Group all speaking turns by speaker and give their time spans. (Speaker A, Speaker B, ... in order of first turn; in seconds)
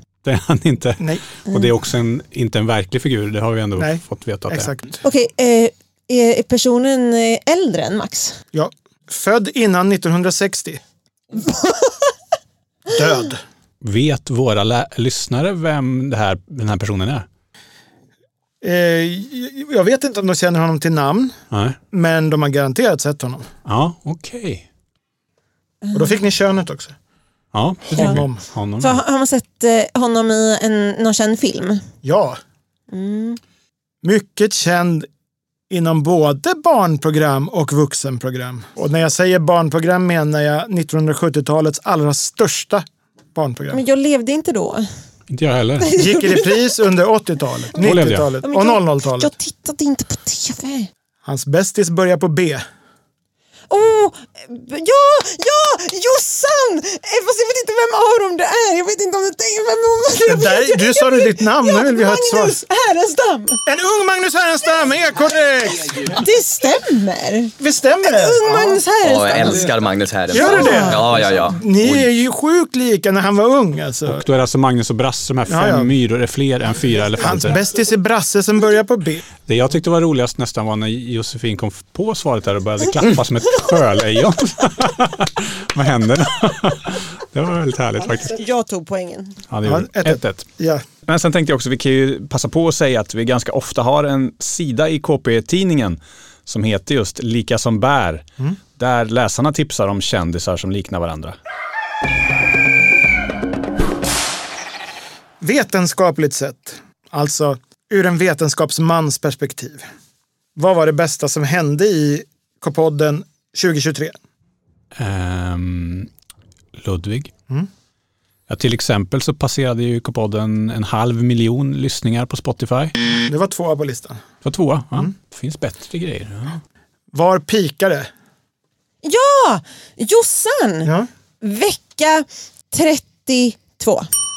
Speaker A: 0.2-4.7, 13.8-17.3, 21.5-21.8, 23.7-24.6, 27.5-29.0, 45.3-45.9, 47.8-48.3, 74.1-77.6, 79.5-88.4, 89.5-90.5, 91.0-98.3, 98.8-101.4, 115.0-116.1, 116.8-117.3, 118.5-123.0, 124.4-126.6
Speaker B: 1.0-1.2, 3.8-5.0, 8.5-10.8, 12.9-13.4, 18.6-21.4, 21.9-23.5, 25.9-26.9, 27.9-28.4, 32.0-32.4, 34.0-35.1, 35.7-43.8, 46.0-49.3, 51.2-52.6, 60.3-62.6, 63.7-66.2, 67.6-68.8, 70.3-74.2, 75.5-76.0, 77.2-79.3, 89.6-90.8, 105.4-109.9, 110.6-114.2, 123.2-124.2, 127.1-128.1
Speaker C: 5.0-8.4, 11.4-12.0, 25.8-26.2, 27.9-28.2, 28.8-31.8, 32.9-33.4, 43.7-44.9, 45.8-46.7, 47.7-50.9, 53.7-63.6, 66.1-69.6, 70.4-71.1, 88.2-89.4, 129.0-130.9, 131.4-134.1
Speaker D: 69.0-72.1